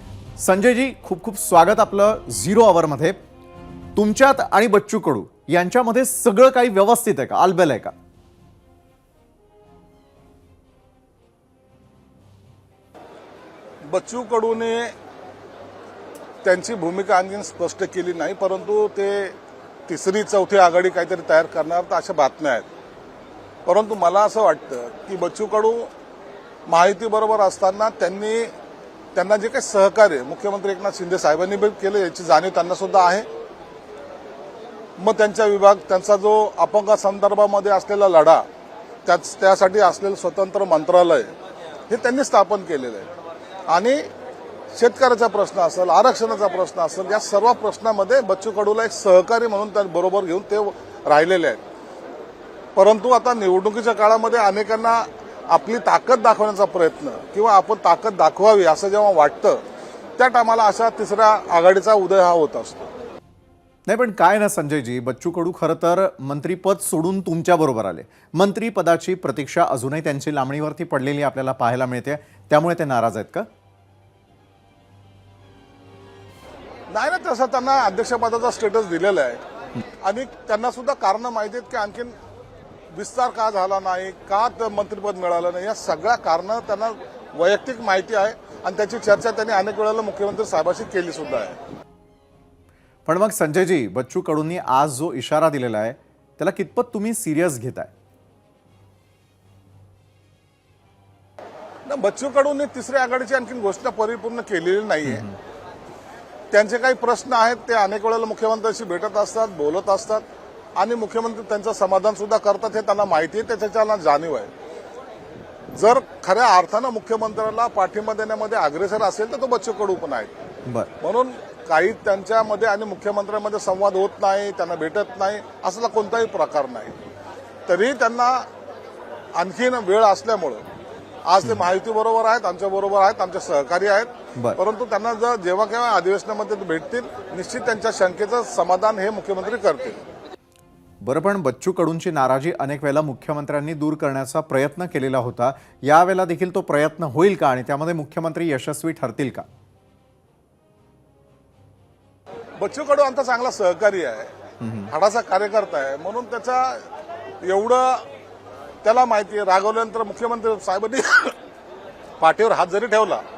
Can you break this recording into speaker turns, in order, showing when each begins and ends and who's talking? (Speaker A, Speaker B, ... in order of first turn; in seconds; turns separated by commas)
Speaker A: 0.4-3.2, Speaker A: 4.0-7.9, Speaker B: 13.9-14.9, Speaker B: 16.4-19.4, Speaker B: 19.9-22.7, Speaker B: 23.7-25.9, Speaker B: 26.7-28.5, Speaker B: 29.1-33.3, Speaker B: 35.0-38.4, Speaker B: 39.1-41.3, Speaker B: 41.9-43.1, Speaker B: 43.7-44.0, Speaker B: 44.7-51.6, Speaker B: 52.8-59.6, Speaker B: 60.2-62.9, Speaker A: 63.9-73.5, Speaker B: 76.9-79.4, Speaker B: 80.0-82.2, Speaker B: 82.9-91.6, Speaker A: 93.1-97.9, Speaker B: 101.9-105.2, Speaker A: 105.0-105.4, Speaker B: 106.5-110.2, Speaker B: 110.8-114.5, Speaker B: 115.8-120.3, Speaker A: 120.7-120.9, Speaker B: 121.0-127.0, Speaker B: 127.7-128.5, Speaker B: 129.4-130.6, Speaker B: 131.3-140.0, Speaker A: 141.0-149.4, Speaker B: 152.6-154.3, Speaker A: 154.6-154.9, Speaker B: 154.9-156.8, Speaker B: 157.4-158.0, Speaker B: 158.8-161.3, Speaker B: 162.2-163.2